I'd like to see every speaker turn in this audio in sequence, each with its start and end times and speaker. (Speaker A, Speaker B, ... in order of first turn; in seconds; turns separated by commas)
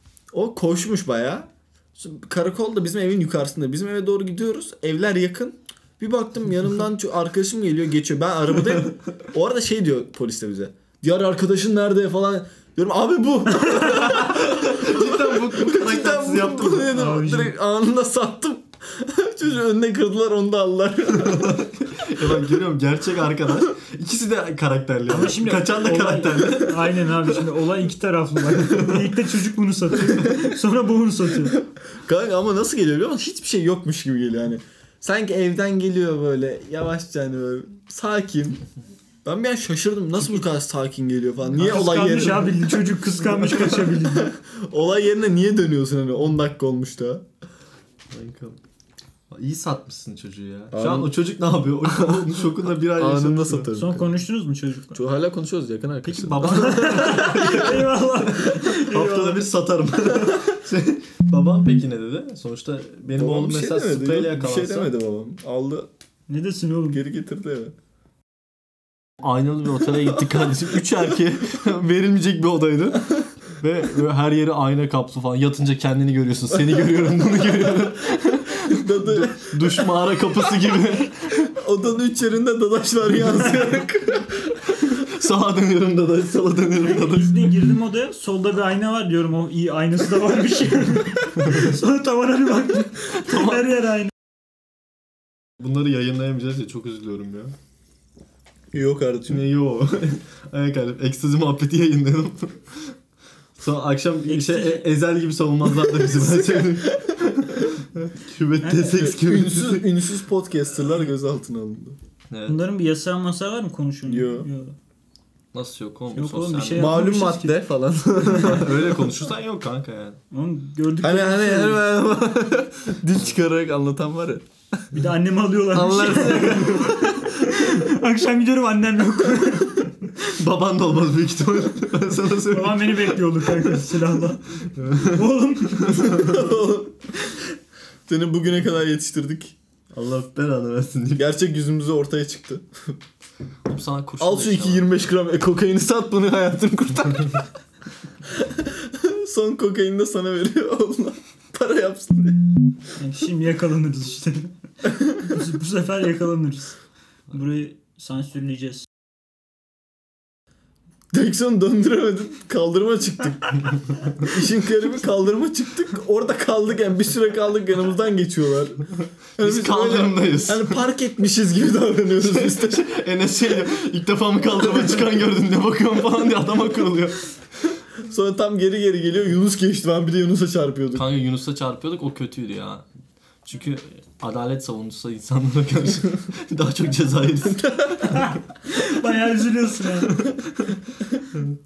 Speaker A: 0.3-21.7, Speaker B: 13.9-17.0, Speaker C: 16.9-17.5, Speaker B: 21.2-27.2, Speaker C: 25.1-31.6, Speaker B: 28.7-29.0, Speaker A: 31.5-38.6, Speaker A: 39.2-47.2, Speaker C: 41.6-44.3, Speaker B: 48.1-48.6, Speaker B: 49.3-53.7, Speaker A: 50.7-51.1, Speaker A: 51.8-54.1, Speaker C: 53.7-55.0, Speaker A: 54.9-57.7, Speaker B: 56.0-64.9, Speaker C: 56.4-59.4, Speaker A: 63.1-65.9, Speaker C: 66.3-67.0, Speaker A: 66.9-67.7, Speaker B: 69.2-81.5, Speaker A: 76.5-76.9, Speaker A: 78.7-79.9, Speaker A: 81.5-84.3, Speaker B: 84.5-87.6, Speaker C: 87.0-94.1, Speaker B: 93.1-93.6, Speaker B: 95.6-97.5, Speaker A: 98.7-99.5, Speaker B: 99.3-102.9, Speaker B: 103.6-109.8, Speaker C: 104.3-104.9, Speaker A: 105.7-107.1, Speaker C: 108.6-109.1, Speaker A: 108.9-112.0, Speaker B: 112.3-112.6, Speaker C: 112.5-114.8, Speaker A: 114.1-114.5, Speaker B: 115.5-117.0, Speaker C: 116.1-117.6, Speaker A: 116.8-118.9, Speaker B: 118.3-120.2, Speaker C: 120.3-121.8, Speaker A: 121.0-124.5, Speaker C: 124.9-130.1, Speaker A: 125.7-127.3, Speaker B: 130.2-133.9, Speaker C: 132.4-136.4, Speaker B: 134.8-135.2, Speaker B: 135.8-136.4, Speaker A: 136.0-136.9, Speaker A: 138.1-139.6, Speaker B: 139.9-141.3, Speaker A: 141.2-142.9, Speaker B: 143.7-144.9, Speaker A: 144.2-147.4, Speaker A: 148.3-152.6, Speaker C: 153.0-154.5, Speaker C: 155.2-156.8, Speaker C: 157.3-158.9, Speaker A: 161.1-168.8, Speaker A: 169.4-172.8, Speaker B: 169.4-170.8, Speaker B: 172.2-177.3, Speaker A: 178.0-181.1, Speaker B: 180.9-182.8, Speaker B: 183.4-188.4, Speaker C: 188.0-190.2, Speaker B: 190.1-190.7